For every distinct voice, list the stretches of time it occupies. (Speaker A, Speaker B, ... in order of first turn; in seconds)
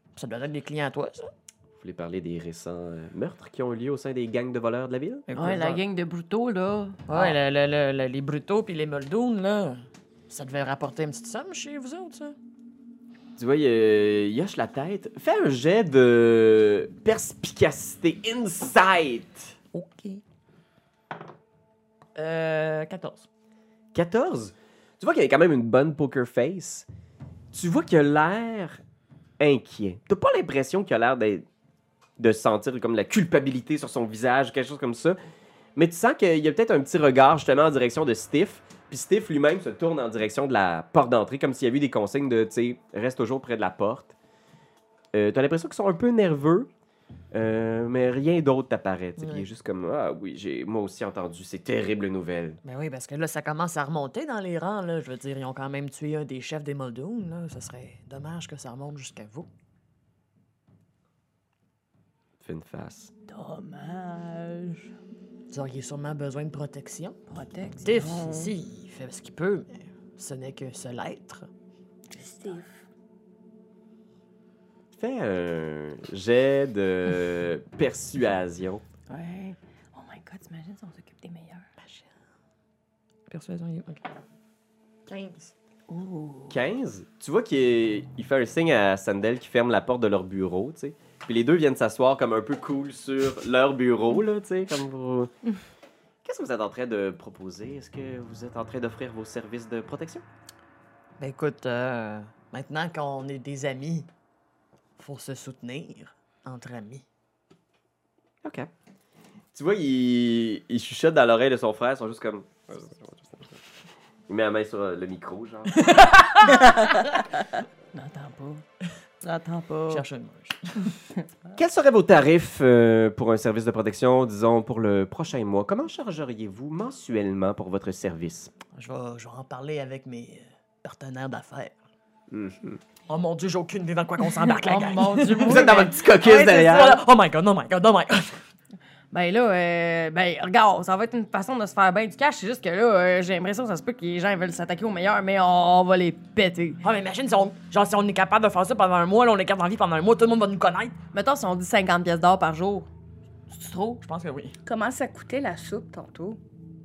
Speaker A: 0.1-1.3, 5.3-5.8, 7.1-12.3, 19.7-20.2, 22.1-23.3, 49.2-49.5, 52.6-59.5, 65.5-67.2, 67.8-71.5, 81.8-82.1, 83.3-84.0, 85.1-85.5, 101.2-104.1, 105.0-107.0, 115.8-117.0, 119.9-120.9, 128.7-131.8, 133.1-138.4, 146.8-150.9, 154.0-154.6
Speaker B: 1.8-5.2, 13.4-19.5, 23.9-26.9, 27.5-28.8, 29.4-31.4, 32.2-35.2, 35.8-44.1, 45.1-46.7, 47.3-52.6, 62.4-63.1, 74.9-78.8, 86.5-95.3, 96.2-100.2, 108.4-108.7, 109.5-113.6, 114.3-116.0, 121.5-128.5, 132.3-132.8, 135.4-137.0
Speaker C: 5.3-7.3, 63.3-64.9, 67.3-68.5, 79.1-81.7, 85.9-86.6, 116.4-117.1, 117.9-118.6, 119.2-120.0, 134.5-136.9, 139.1-146.8, 151.1-152.9, 153.5-154.0
Speaker D: 72.1-72.7, 154.7-156.4